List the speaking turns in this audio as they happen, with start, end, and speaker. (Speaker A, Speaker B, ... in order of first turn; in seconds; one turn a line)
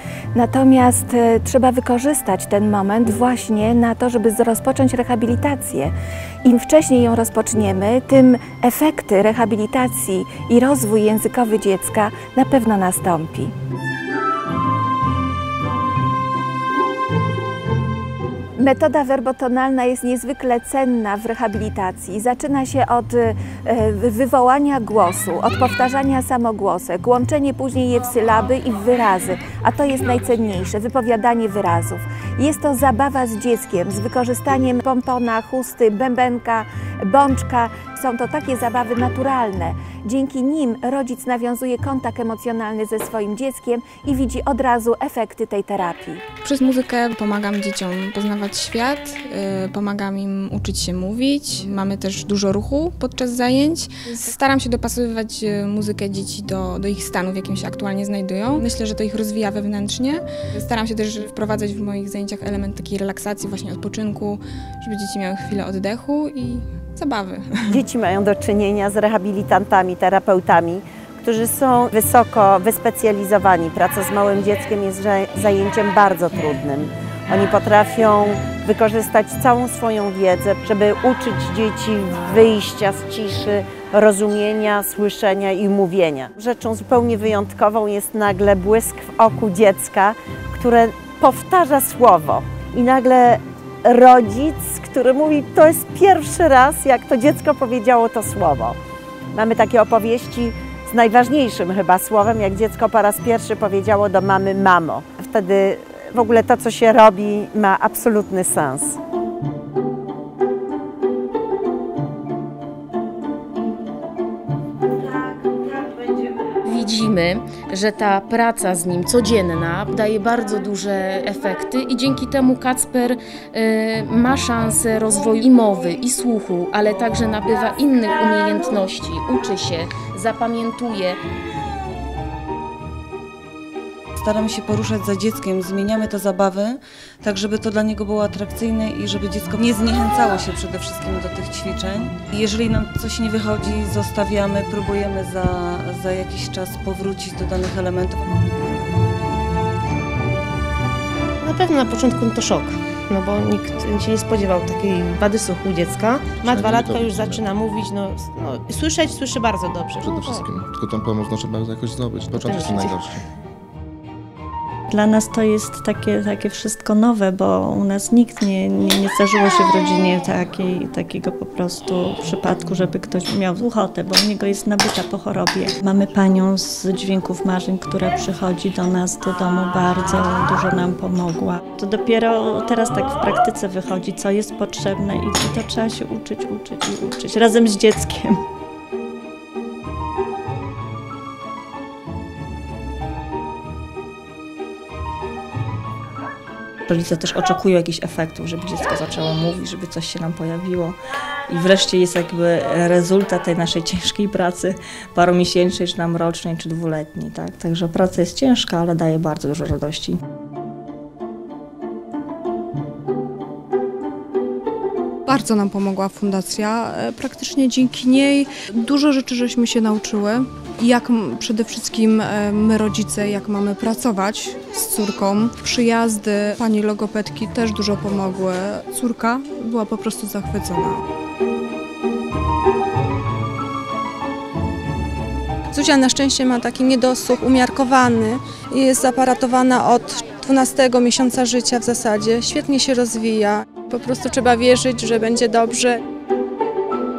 Speaker A: 0.3-5.9
Speaker A: 6.4-13.5
Speaker A: 18.6-46.2
Speaker B: 46.4-67.8
Speaker C: 67.7-98.8
Speaker C: 99.3-109.0
Speaker D: 116.6-131.2
Speaker E: 134.2-136.7
Speaker E: 137.2-148.2
Speaker F: 151.4-160.5
Speaker G: 156.4-157.5
Speaker G: 160.0-163.2
Speaker F: 162.4-163.0
Speaker H: 164.9-188.4
Speaker I: 196.9-201.0
Speaker I: 201.5-210.2
Speaker J: 215.3-231.0
Speaker K: 235.7-246.0